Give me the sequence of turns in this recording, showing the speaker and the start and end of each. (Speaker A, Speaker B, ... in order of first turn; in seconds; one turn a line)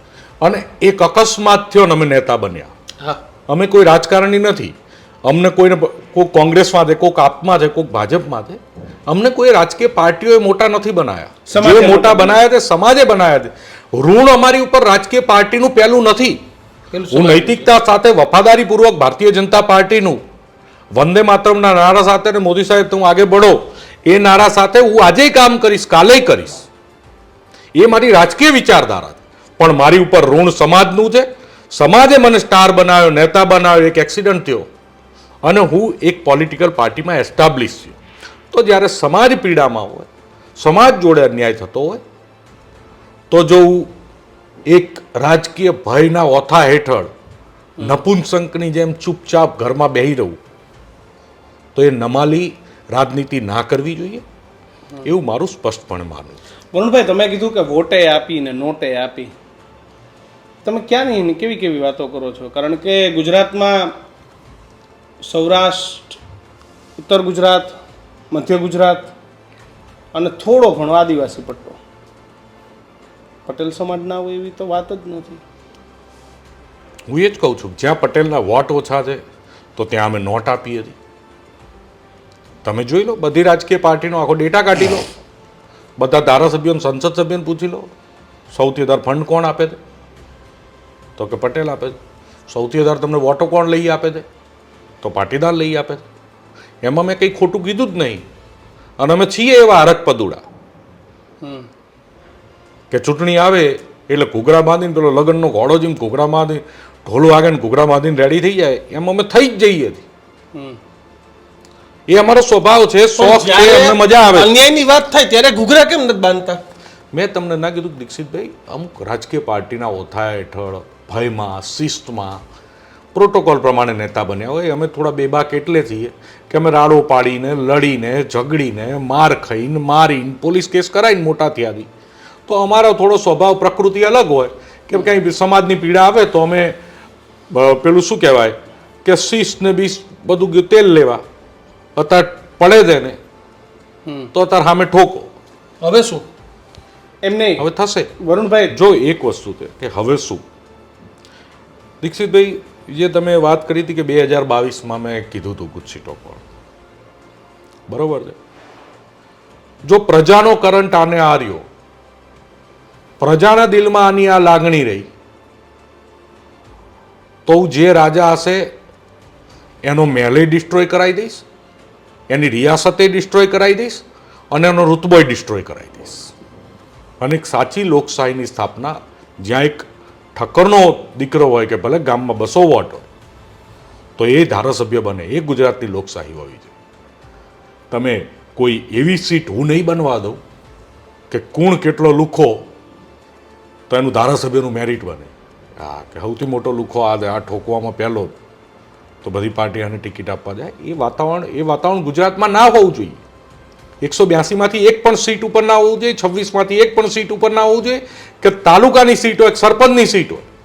Speaker A: 0.4-2.7
Speaker A: 3.5-16.4
Speaker B: 11.5-12.4
Speaker C: 16.9-17.7
Speaker A: 17.1-20.2
Speaker A: 20.9-26.7
Speaker A: 27.8-34.7
Speaker A: 35.5-38.0
Speaker A: 38.5-42.0
Speaker A: 43.3-43.9
Speaker A: 44.7-47.1
Speaker A: 47.8-50.4
Speaker A: 51.8-54.2
Speaker A: 55.0-56.4
Speaker B: 56.7-59.3
Speaker B: 60.6-64.0
Speaker B: 65.2-66.2
Speaker B: 67.0-67.8
Speaker B: 68.3-69.1
Speaker B: 70.1-71.8
Speaker B: 73.5-75.4
Speaker A: 77.1-79.2
Speaker A: 79.8-81.0
Speaker A: 82.6-85.0
Speaker A: 86.0-87.9
Speaker A: 88.5-89.8
Speaker A: 91.2-92.0
Speaker A: 92.5-94.2
Speaker A: 95.0-96.0
Speaker A: 96.8-98.2
Speaker A: 99.0-100.4
Speaker B: 101.4-101.7
Speaker A: 102.9-110.0
Speaker A: 112.1-114.5
Speaker C: 113.2-116.6
Speaker A: 117.1-122.4
Speaker A: 123.1-131.9
Speaker A: 132.5-136.8
Speaker A: 137.5-141.2
Speaker A: 142.0-143.2
Speaker A: 144.3-145.3
Speaker C: 145.8-146.2
Speaker B: 147.2-147.6
Speaker A: 147.6-148.1
Speaker B: 148.2-148.8
Speaker A: 148.7-150.4
Speaker A: 152.0-156.4
Speaker A: 157.9-158.4
Speaker A: 159.9-161.6
Speaker A: 163.2-165.1
Speaker A: 167.5-168.7
Speaker A: 169.9-171.4
Speaker A: 172.3-176.3
Speaker A: 177.2-183.1
Speaker A: 184.2-186.7
Speaker A: 187.9-190.4
Speaker A: 191.3-192.7
Speaker A: 193.9-198.3
Speaker A: 199.2-203.2
Speaker A: 204.0-210.5